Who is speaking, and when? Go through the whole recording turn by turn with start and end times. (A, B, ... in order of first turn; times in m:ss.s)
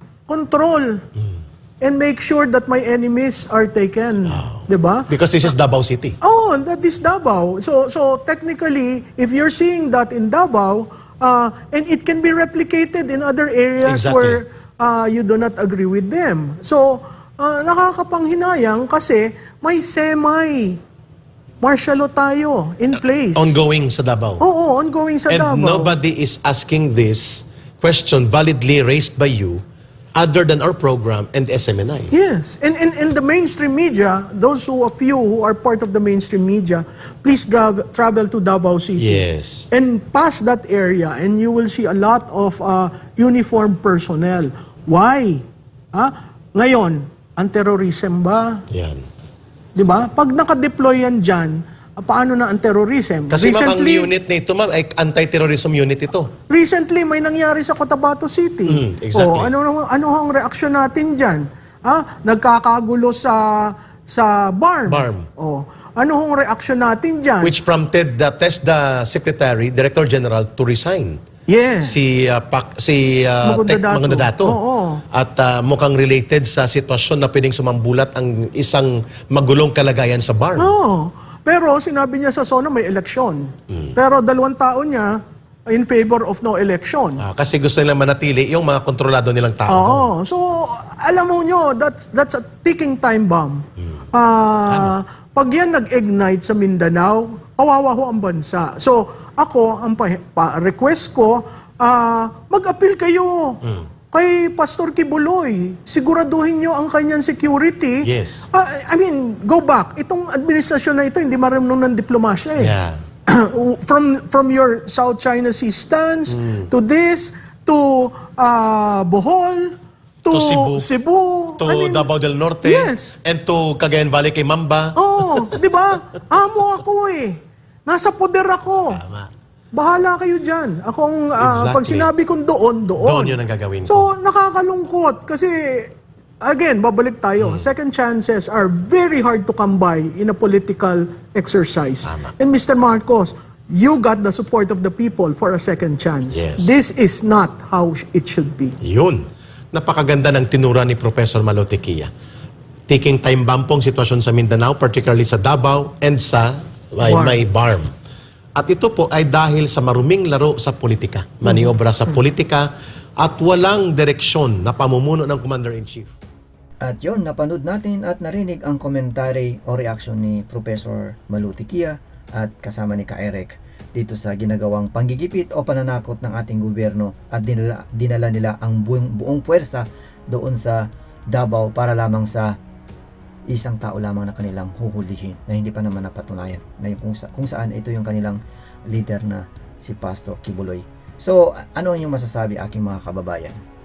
0:00.3-0:01.0 A
0:01.8-0:05.0 A
0:04.3-0:06.2 B
0:06.2-0:20.8 A
0:13.8-0:14.4 B
0:21.6-0:23.5 A
0:23.0-0:24.4 B
0:24.4-0:25.9 A
0:25.3-0:29.6 B
0:30.2-0:32.1 B
0:32.1-0:39.2 A
0:39.0-0:39.7 B
0:39.7-0:48.6 A
0:48.7-0:49.0 B
0:49.8-0:54.1 A
0:53.3-0:56.3 B
0:56.5-1:07.5 A
0:58.7-0:59.5 B
1:04.9-1:05.3 B
1:07.4-1:11.2 B
1:11.5-1:11.9 A
1:11.8-1:14.6 B
1:13.5-1:15.0 A
1:15.2-1:20.8 B
1:20.6-1:27.2 A
1:27.2-1:30.1 B
1:29.7-1:33.6 A
1:34.2-1:43.5 A
1:34.7-1:35.0 B
1:44.1-1:48.0 A
1:48.0-1:48.4 B
1:48.5-1:52.7 A
1:52.6-1:53.0 B
1:53.3-1:59.8 A
1:56.3-1:56.6 B
2:00.3-2:02.1 A
2:00.3-2:00.9 B
2:01.6-2:05.5 B
2:02.6-2:03.1 A
2:05.0-2:09.0 A
2:08.9-2:09.3 B
2:09.7-2:13.4 A
2:11.4-2:12.1 B
2:13.0-2:14.1 B
2:13.9-2:28.7 A
2:17.4-2:17.7 B
2:22.0-2:22.3 B
2:26.3-2:26.7 B
2:28.8-2:29.2 B
2:29.7-2:32.1 B
2:32.9-2:37.9 B
2:37.0-2:37.3 A
2:38.6-2:42.7 B
2:43.2-2:46.2 B
2:46.8-3:02.6 C
3:03.5-3:08.4 C
3:08.9-3:13.6 C